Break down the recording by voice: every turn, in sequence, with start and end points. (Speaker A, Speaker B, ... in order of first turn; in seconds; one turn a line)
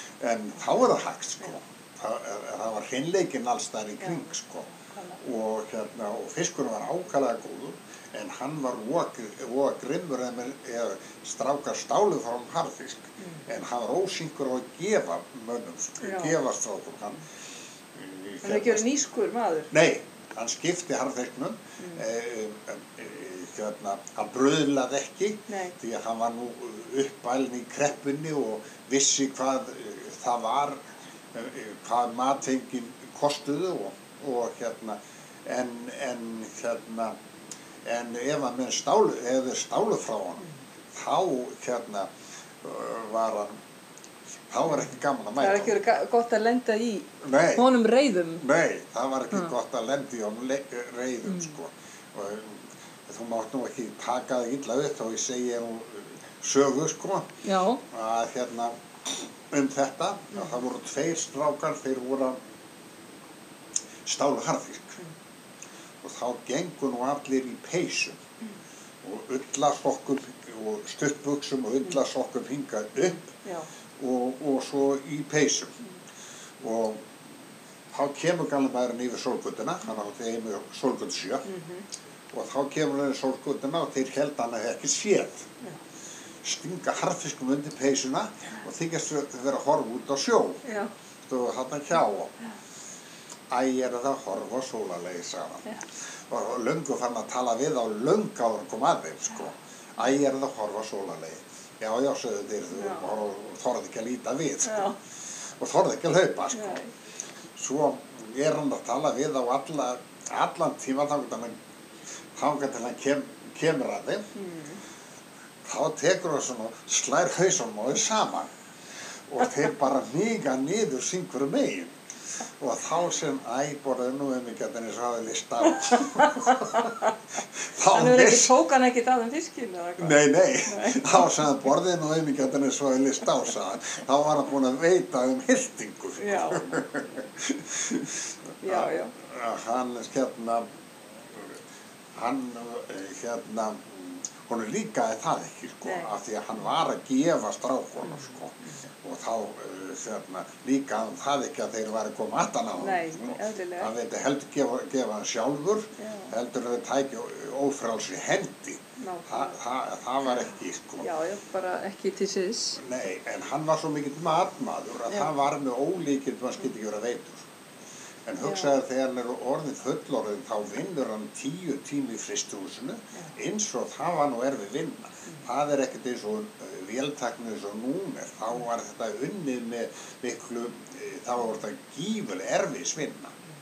Speaker A: 0.2-17.2
Speaker B: 4.0-4.3
Speaker B: 16.0-16.4
Speaker A: 17.9-18.9
Speaker B: 18.4-19.7
Speaker A: 19.7-37.1
Speaker B: 25.5-25.7
Speaker A: 37.8-42.1
Speaker A: 42.6-43.6
Speaker A: 44.5-45.7
Speaker B: 45.4-48.4
Speaker A: 47.2-47.6
Speaker A: 48.4-62.4
Speaker B: 57.4-57.8
Speaker A: 64.0-65.0
Speaker A: 66.0-68.2
Speaker A: 69.0-73.3
Speaker B: 73.0-73.7
Speaker A: 74.0-75.8
Speaker A: 76.6-77.1
Speaker A: 77.9-81.5
Speaker B: 81.5-81.8
Speaker A: 82.3-85.5
Speaker A: 86.4-90.6
Speaker B: 90.6-90.9
Speaker A: 91.3-92.3
Speaker A: 93.5-95.7
Speaker A: 96.3-106.8
Speaker B: 102.7-103.1
Speaker B: 104.6-105.0
Speaker B: 106.5-106.9
Speaker A: 107.5-111.5
Speaker A: 112.3-114.2
Speaker B: 114.3-114.8
Speaker A: 115.6-118.5
Speaker A: 119.3-121.9
Speaker A: 122.6-126.8
Speaker B: 126.5-126.9
Speaker A: 127.6-128.5
Speaker B: 127.9-131.3
Speaker A: 130.0-140.7
Speaker B: 136.2-136.8
Speaker B: 138.6-139.1
Speaker A: 142.1-161.1
Speaker B: 145.8-146.1
Speaker B: 148.1-148.7
Speaker B: 152.8-153.9
Speaker B: 156.0-156.3
Speaker B: 159.0-159.6
Speaker B: 161.0-162.8
Speaker A: 162.8-167.5
Speaker A: 168.2-183.3
Speaker B: 168.4-168.7